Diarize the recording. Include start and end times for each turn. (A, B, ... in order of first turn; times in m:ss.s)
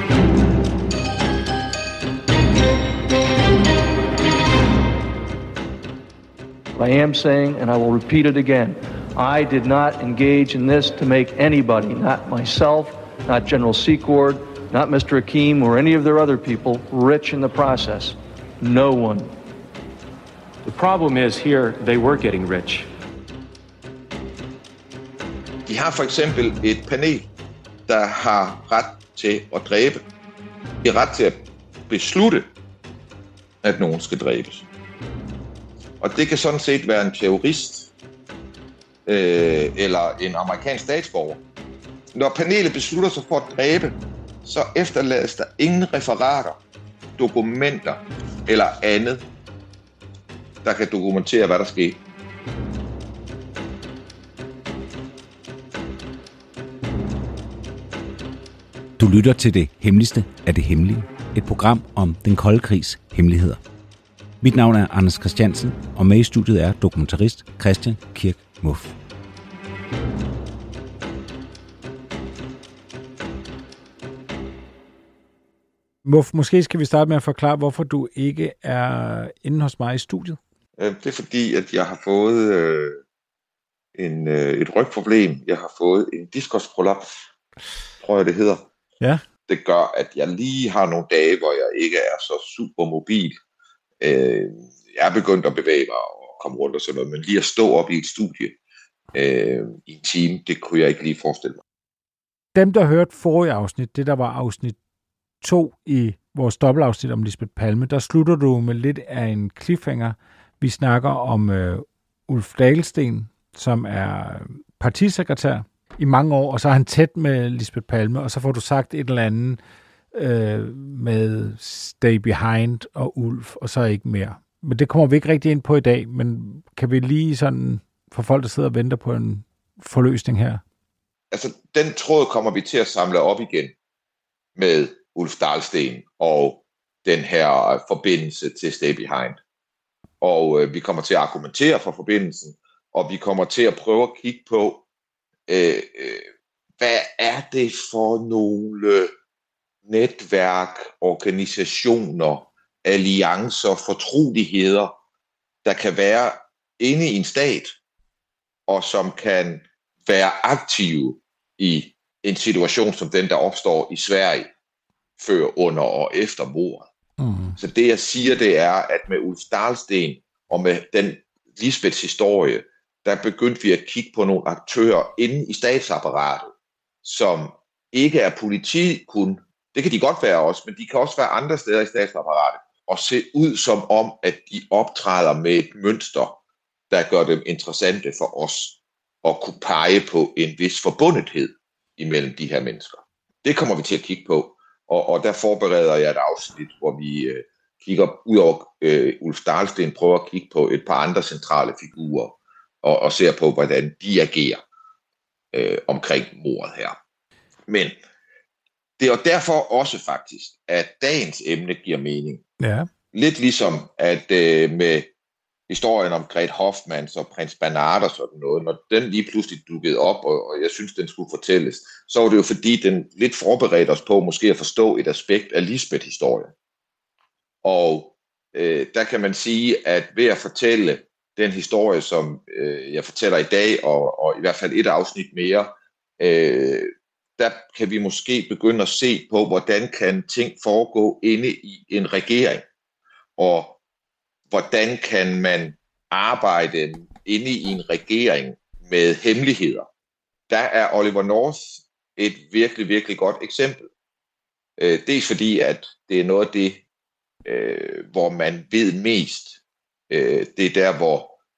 0:06.7-0:19.3 A
0:20.6-0:22.9 B
0:25.7-0:27.3 C
0:27.9-0:30.0 C
0:30.8-0:32.5 C
0:33.6-0:34.6 C
0:36.0-0:37.9 C
0:39.0-0:41.4 C
0:42.1-0:46.6 C
0:47.2-0:49.2 C
0:50.6-0:52.0 C
0:59.0-1:03.6 D
1:04.4-1:08.9 D
1:16.0-1:20.4 E
1:20.8-1:23.0 C
1:24.0-1:27.0 C
1:28.0-1:28.7 C
1:29.5-1:33.3 C
1:34.0-1:38.6 C
1:39.1-1:41.6 C
1:42.5-1:44.8 E
1:45.4-1:59.6 E
2:00.1-2:10.6 E
2:11.3-2:13.7 C
2:14.6-2:19.4 C
2:20.2-2:24.8 C
2:25.5-2:26.3 C
2:26.8-2:29.1 C
2:29.8-2:34.9 C
2:35.6-2:37.8 C
2:38.7-2:44.5 C
2:45.2-2:46.9 C
2:47.2-2:47.5 E
2:47.6-2:56.5 C
2:57.0-3:06.4 C
3:06.9-3:24.6 C
3:25.5-3:27.0 C
3:27.7-3:28.0 C
3:29.0-3:32.4 C
3:32.6-3:32.9 E
3:33.1-3:35.1 C
3:35.7-3:46.5 C
3:47.6-4:02.6 C
4:03.4-4:03.8 C
4:04.5-4:09.8 C
4:10.5-4:13.8 C
4:14.8-4:16.8 C
4:17.4-4:21.4 C